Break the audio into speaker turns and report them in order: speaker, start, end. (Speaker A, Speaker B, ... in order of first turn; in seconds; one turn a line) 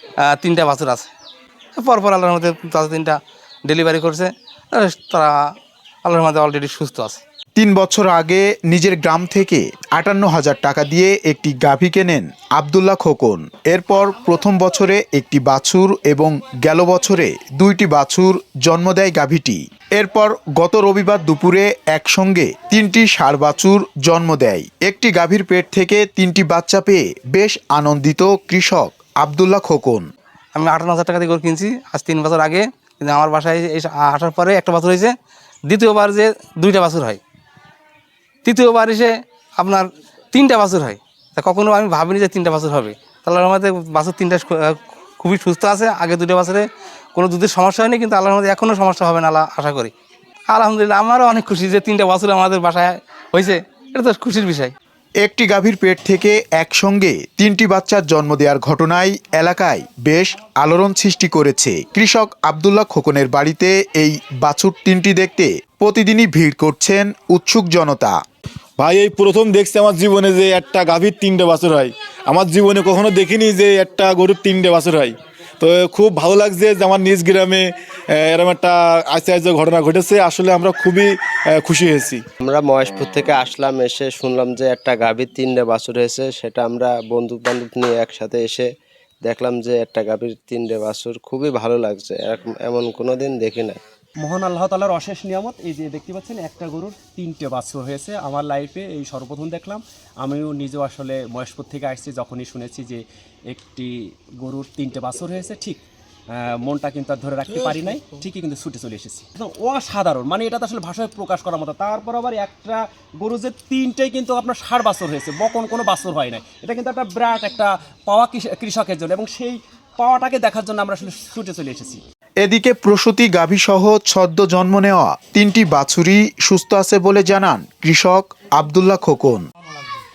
Speaker A: 0.2-1.1
Speaker A: 1.8-5.3
Speaker A: 6.0-7.2
Speaker B: 7.5-30.0
Speaker A: 30.5-35.1
Speaker A: 35.7-37.2
Speaker A: 38.4-49.9
Speaker A: 50.5-54.7
Speaker B: 55.2-68.2
Speaker C: 68.8-82.2
Speaker D: 82.4-88.7
Speaker D: 89.2-93.8
Speaker E: 94.2-122.0
Speaker B: 122.4-129.4